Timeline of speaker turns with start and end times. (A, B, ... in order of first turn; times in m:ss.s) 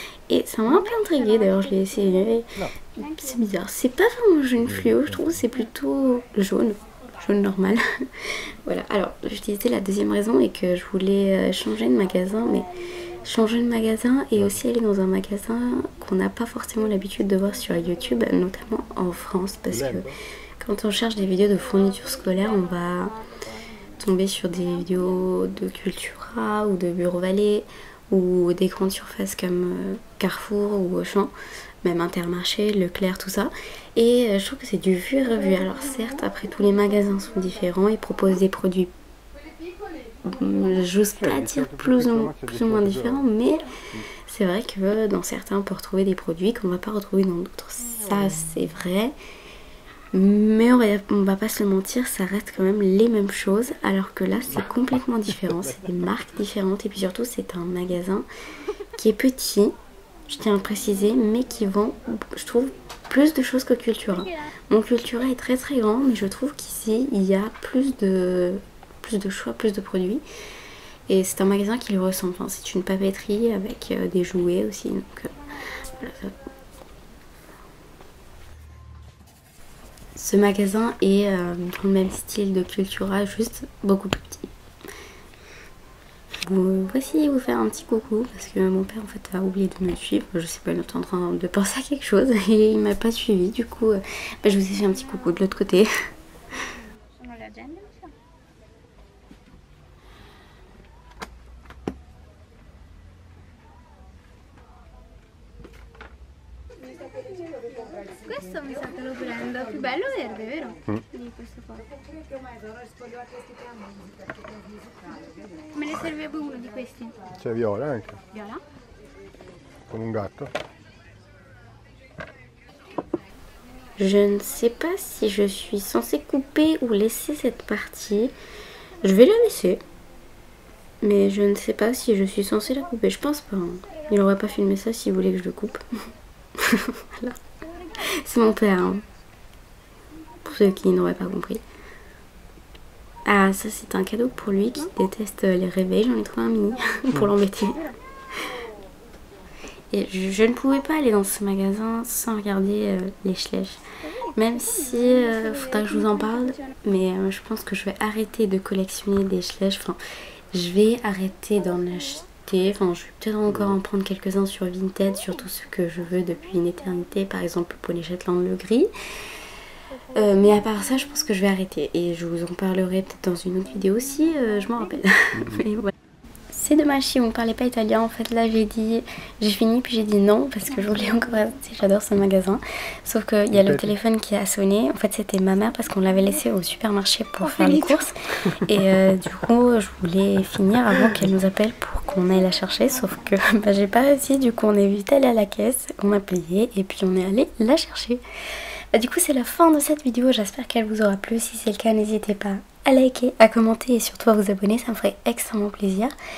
0:00.3-0:02.5 A
0:00.7-0:02.4 B
0:03.0-0:03.4 B
0:03.0-0:07.8 A
0:08.6-0:12.7 A
0:13.2-0:20.1 A
0:14.4-0:14.6 C
0:19.7-0:20.2 C
0:20.6-0:23.2 A
0:24.0-0:38.9 A
0:40.2-0:43.7 A
0:41.2-0:43.3 C
0:44.2-0:49.1 A
0:50.1-0:58.3 A
0:59.0-0:59.8 A
1:00.3-1:10.2 A
1:04.2-1:04.4 B
1:11.1-1:16.3 A
1:20.2-1:24.5 A
1:26.4-1:35.9 A
1:37.1-1:38.1 B
1:48.1-1:51.9 B
1:55.7-1:57.2 B
1:57.4-1:58.2 C
1:58.3-1:58.6 B
1:59.9-2:00.5 C
2:04.0-2:08.3 A
2:09.0-2:09.8 A
2:11.0-2:15.8 A
2:16.6-2:17.4 A
2:18.0-2:19.0 A
2:20.4-2:21.6 A
2:23.3-2:27.9 A
2:29.9-2:33.8 A
2:34.0-2:36.7 B
2:34.4-2:40.0 A
2:40.5-2:48.9 A
2:43.5-2:43.8 C
2:49.9-2:50.7 B
2:50.1-2:55.9 A
2:55.4-2:55.6 C
2:56.5-3:18.2 A
3:00.7-3:01.4 B
3:03.5-3:03.9 C
3:07.4-3:08.1 B
3:12.1-3:13.5 B
3:18.9-3:26.1 A